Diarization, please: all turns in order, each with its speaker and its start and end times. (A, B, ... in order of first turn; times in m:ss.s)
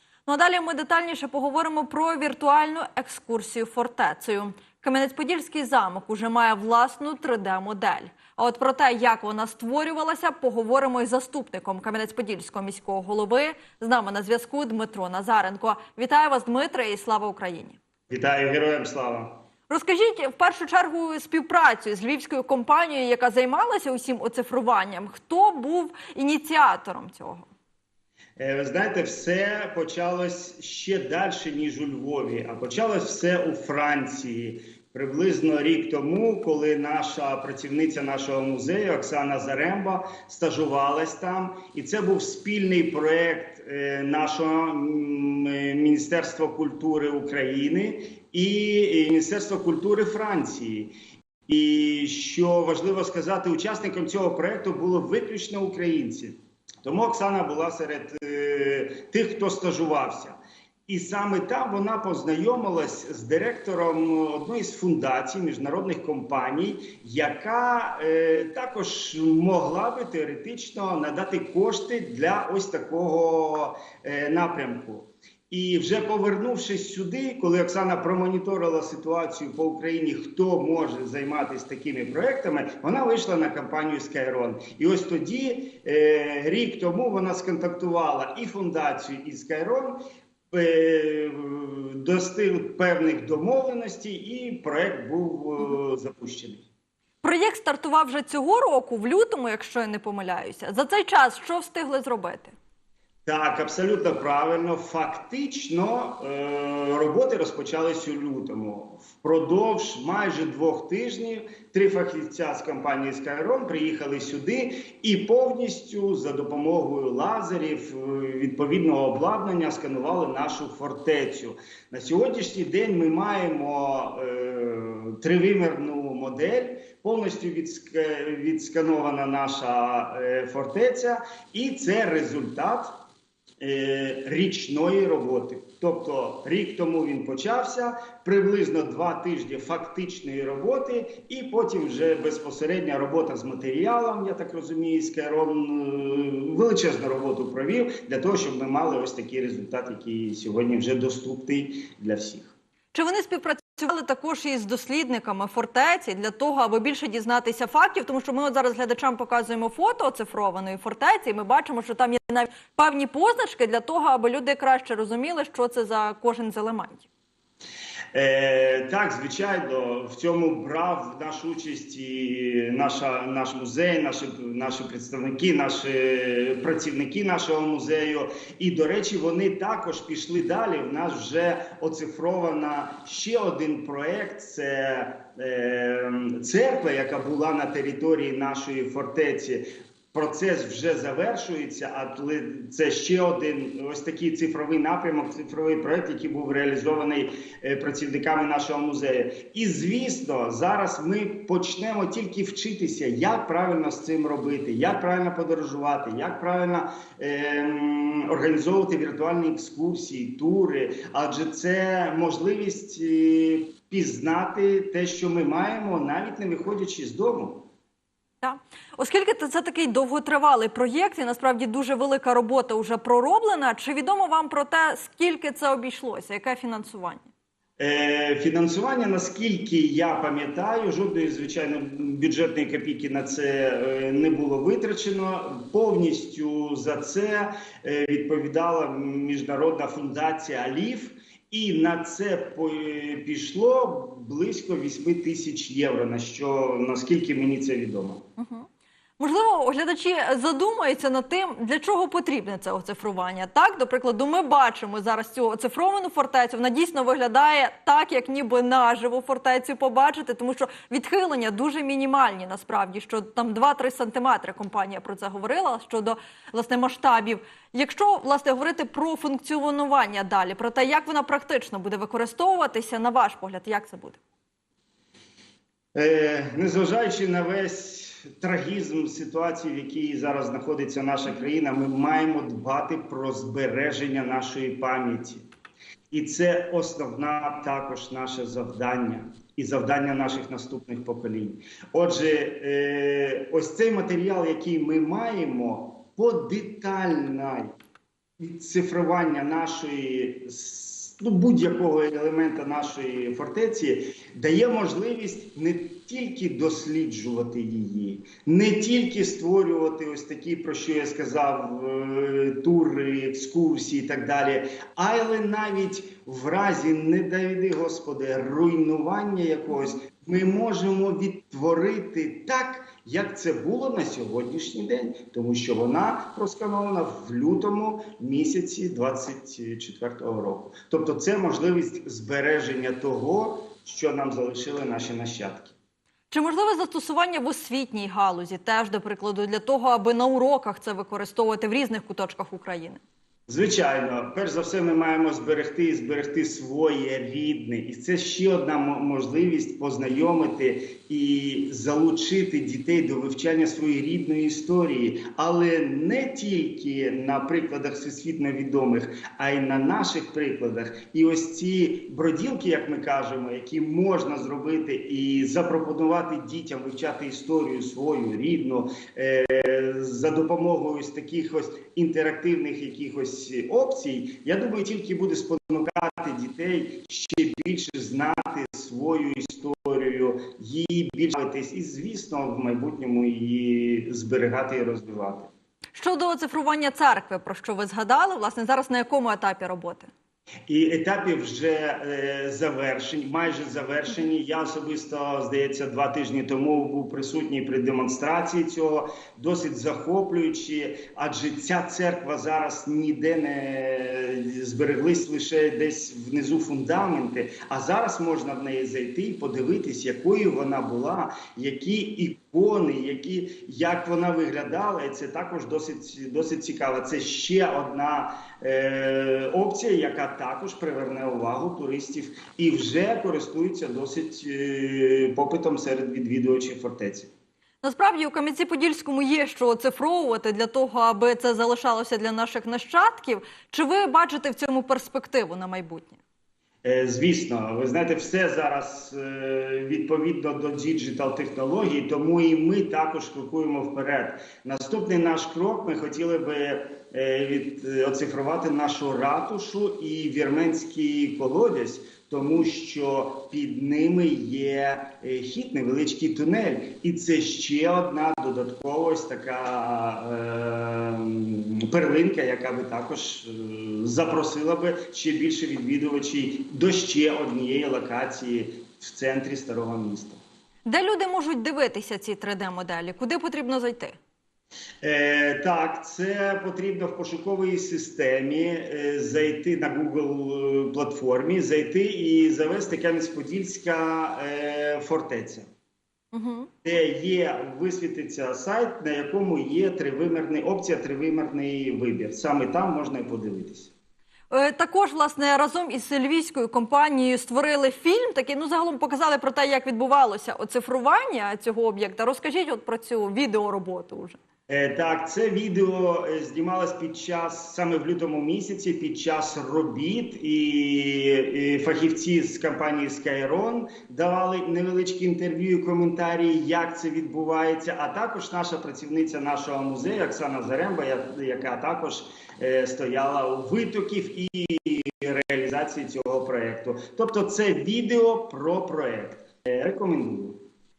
0:00.2-0:17.8 A
0:18.1-0:19.4 B
0:19.7-0:27.5 A
0:28.4-0:50.9 B
0:51.5-1:30.0 B
1:30.5-1:36.6 B
1:37.2-1:42.5 A
1:43.2-2:12.9 B
2:13.6-2:32.5 B
2:32.9-2:47.1 A
2:48.1-3:37.7 B
3:38.4-3:47.3 A
3:47.8-4:08.2 B
4:08.4-4:08.7 A
4:09.2-4:34.2 A
4:35.9-4:45.4 B
4:46.1-4:57.7 B
4:58.4-5:35.7 B
5:36.3-5:43.0 A
5:43.5-6:25.5 B
6:25.9-6:30.1 A
6:30.7-7:07.3 B
7:07.8-7:16.2 A
7:16.8-7:50.4 B
7:50.8-7:54.2 A
7:55.0-8:05.7 B
8:06.3-8:06.7 A
8:06.8-8:13.9 B
8:14.5-8:24.4 A
8:24.7-8:50.6 B